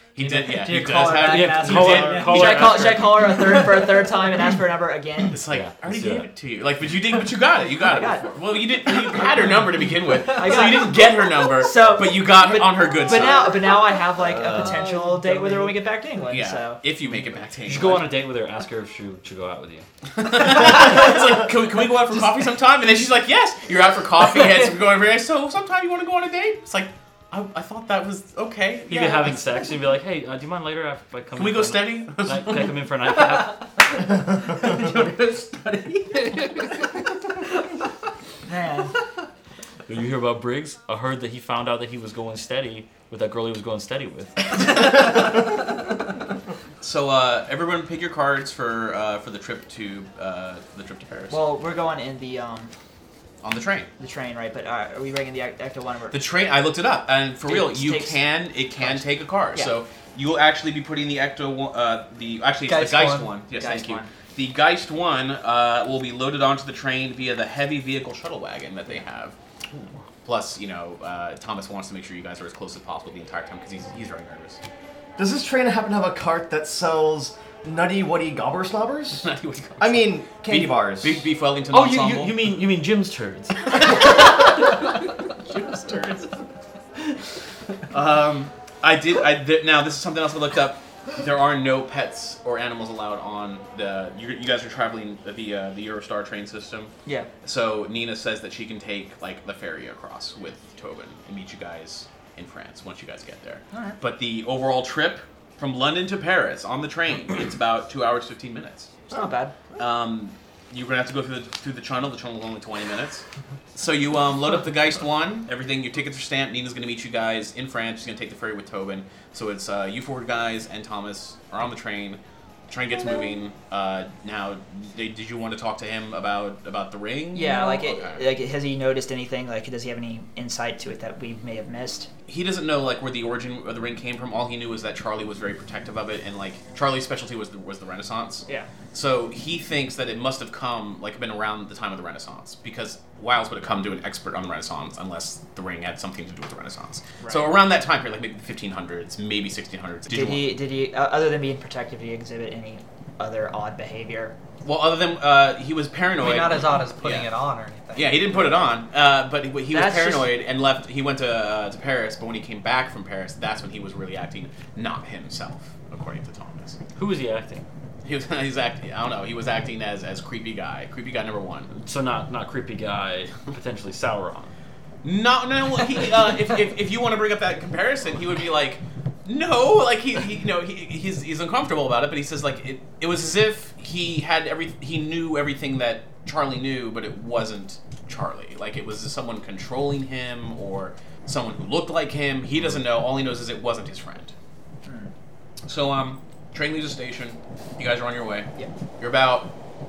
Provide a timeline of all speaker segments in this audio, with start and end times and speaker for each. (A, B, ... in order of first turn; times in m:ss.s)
0:00.1-0:02.8 A
0:00.2-0:02.8 B
0:01.2-0:03.4 C
0:02.3-0:05.4 D
0:05.3-0:13.6 A
0:05.5-0:06.3 C
0:07.8-0:08.3 D
0:10.3-0:16.8 D
0:14.4-0:15.8 B
0:16.3-0:18.1 A
0:17.7-0:19.8 C
0:20.1-0:29.4 A
0:28.9-0:33.7 C
0:31.3-0:32.7 A
0:33.9-0:36.9 B
0:38.4-0:39.0 D
0:39.9-0:45.2 C
0:46.8-0:51.4 A
0:51.3-0:52.7 D
0:53.4-0:53.9 A
0:54.0-0:56.2 D
0:56.1-1:09.4 A
0:57.4-0:58.2 D
1:02.7-1:03.3 B
1:03.6-1:04.1 D
1:10.2-1:14.6 A
1:15.2-1:19.3 E
1:19.2-1:22.4 A
1:19.8-1:21.2 E
1:21.7-1:24.2 C
1:23.7-1:24.5 A
1:25.4-1:26.3 A
1:27.9-1:36.9 A
1:37.4-1:49.0 A
1:43.7-1:44.0 D
1:49.1-1:49.6 D
1:49.7-2:08.2 A
2:07.3-2:12.1 D
2:12.3-2:30.5 A
2:27.2-2:27.6 D
2:30.1-2:34.3 D
2:34.6-2:37.3 A
2:36.2-2:38.4 B
2:37.9-2:46.8 A
2:39.7-2:40.3 D
2:47.0-2:47.7 C
2:48.0-2:51.7 A
2:51.7-2:54.5 C
2:55.0-3:14.3 A
3:14.8-3:15.1 D
3:15.6-3:19.5 A